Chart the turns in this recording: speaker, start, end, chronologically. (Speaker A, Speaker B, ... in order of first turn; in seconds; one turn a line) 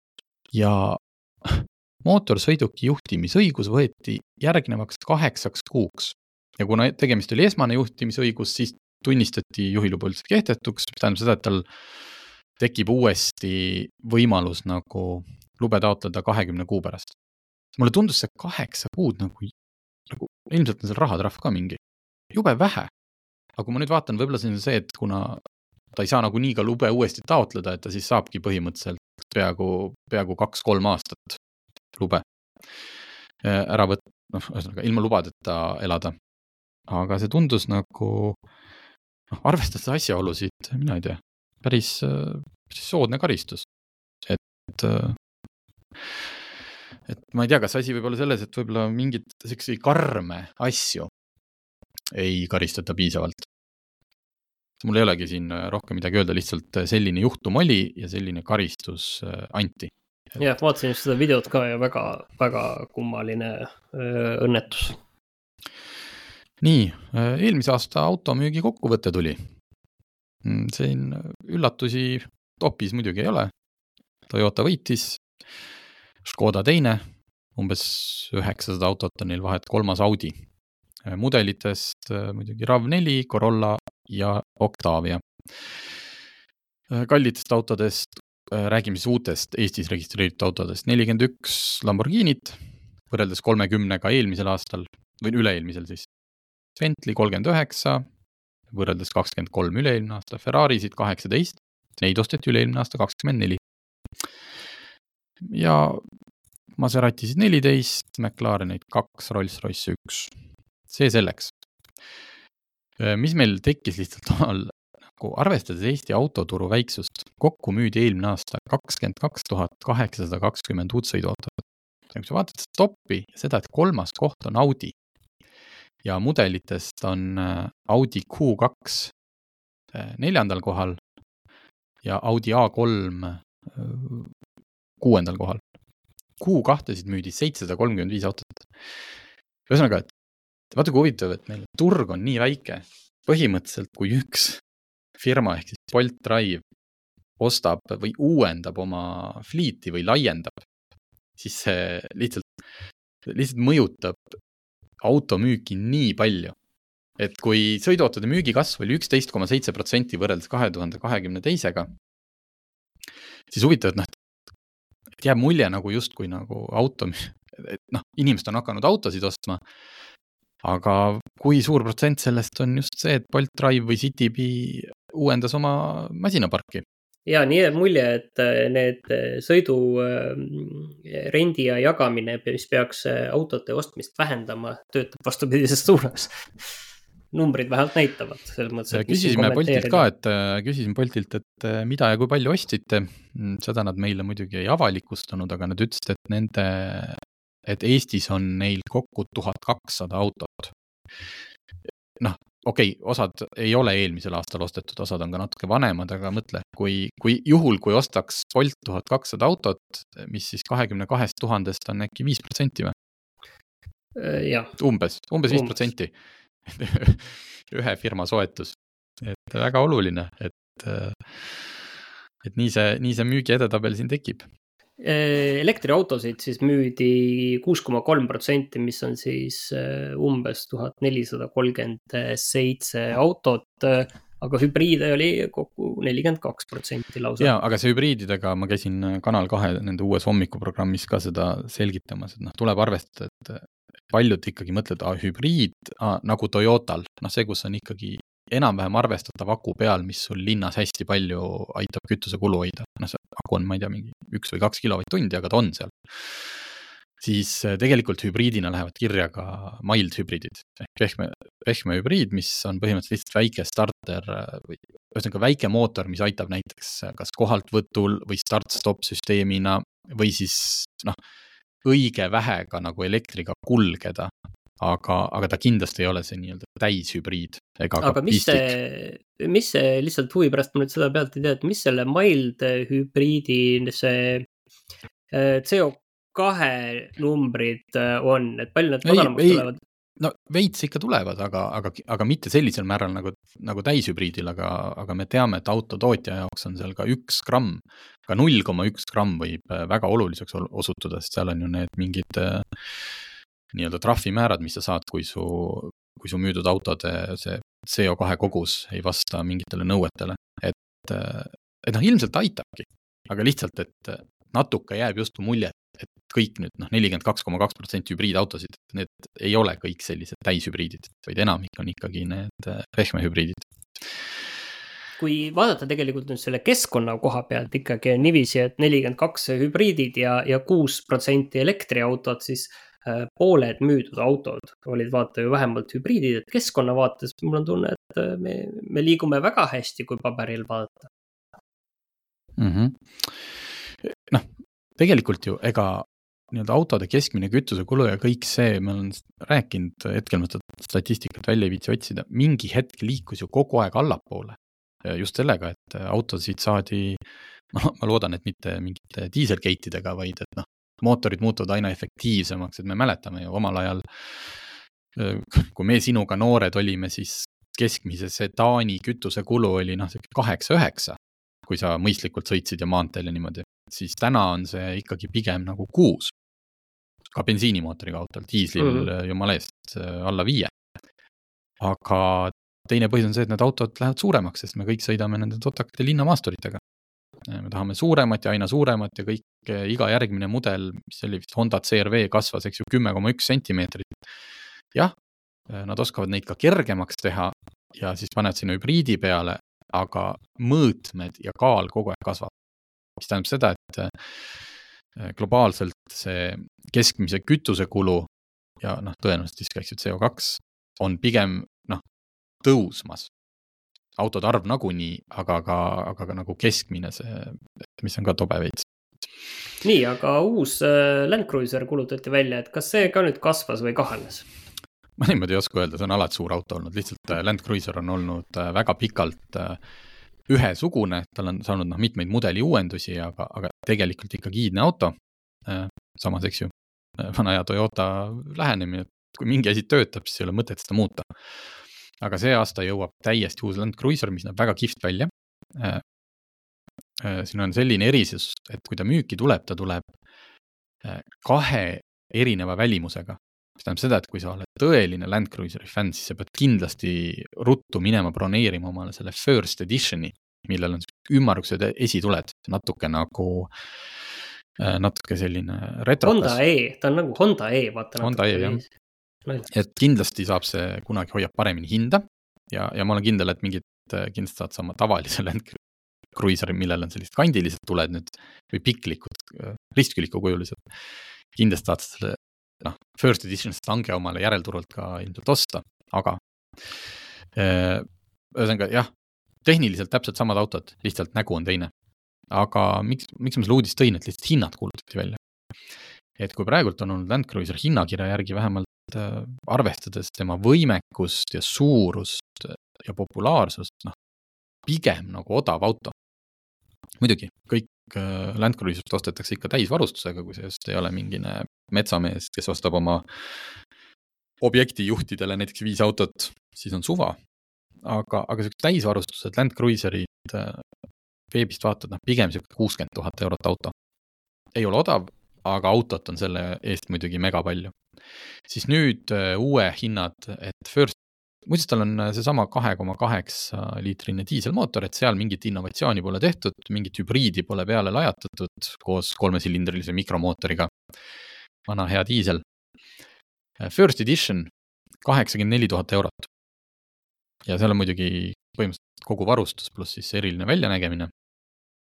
Speaker A: 0.5-11.7
Speaker A: 12.6-17.1
Speaker A: 17.8-19.5
Speaker A: 20.1-21.8
Speaker A: 22.3-22.9
Speaker A: 23.6-25.4
Speaker A: 25.9-31.4
Speaker A: 31.9-32.9
Speaker A: 33.4-36.1
Speaker A: 36.9-38.4
Speaker A: 39.3-43.6
Speaker A: 44.2-45.2
Speaker A: 46.0-46.3
Speaker A: 47.1-51.1
Speaker A: 52.1-53.5
Speaker A: 54.8-60.4
Speaker B: 60.4-65.0
Speaker A: 66.6-69.5
Speaker A: 70.4-73.5
Speaker A: 74.3-75.2
Speaker A: 76.2-80.5
Speaker A: 81.0-86.0
Speaker A: 86.9-96.1
Speaker A: 96.8-98.1
Speaker A: 98.7-103.6
Speaker A: 105.4-106.0
Speaker A: 106.8-110.4
Speaker A: 110.9-111.6
Speaker A: 113.0-124.9
Speaker A: 126.0-129.1
Speaker A: 129.9-131.0
Speaker A: 132.0-134.3
Speaker A: 135.0-135.6
Speaker A: 136.4-139.1
Speaker A: 139.7-140.1
Speaker A: 140.7-144.6
Speaker A: 145.2-146.6
Speaker A: 147.4-150.6
Speaker A: 151.4-152.5
Speaker A: 153.3-154.4
Speaker A: 155.0-156.6
Speaker A: 157.2-161.9
Speaker A: 163.5-164.1
Speaker A: 165.2-169.6
Speaker A: 170.6-176.8
Speaker B: 177.3-186.8
Speaker B: 187.3-190.1
Speaker A: 188.9-201.4
Speaker A: 202.2-212.9
Speaker B: 214.2-214.8
Speaker A: 214.8-216.1
Speaker B: 215.5-215.7
Speaker A: 216.6-224.4
Speaker B: 225.0-237.5
Speaker A: 237.4-271.2
Speaker A: 271.8-278.7
Speaker B: 278.0-284.5
Speaker B: 285.3-289.8
Speaker A: 289.0-289.7
Speaker A: 290.2-303.2
Speaker A: 303.7-324.2
Speaker B: 325.2-341.1
Speaker A: 342.6-376.3
Speaker A: 377.3-380.7
Speaker B: 378.8-379.1
Speaker A: 381.8-386.8
Speaker A: 387.4-394.3
Speaker A: 395.7-402.5
Speaker A: 403.2-408.3
Speaker A: 408.8-412.0
Speaker A: 412.6-413.3
Speaker A: 414.2-418.9
Speaker B: 419.8-424.4
Speaker A: 425.2-429.8
Speaker A: 430.5-446.0
Speaker A: 447.2-450.1
Speaker A: 451.0-466.6
Speaker B: 466.2-468.9
Speaker A: 468.2-468.8
Speaker A: 469.7-475.8
Speaker A: 476.4-489.1
Speaker A: 489.6-491.9
Speaker A: 492.5-504.1
Speaker A: 504.9-506.1
Speaker A: 507.2-513.8
Speaker A: 514.6-517.4
Speaker A: 518.0-521.0
Speaker A: 521.5-523.9
Speaker A: 524.7-528.0
Speaker A: 528.7-541.0
Speaker A: 541.9-542.6
Speaker A: 543.8-544.7
Speaker A: 545.2-546.5
Speaker A: 547.7-551.3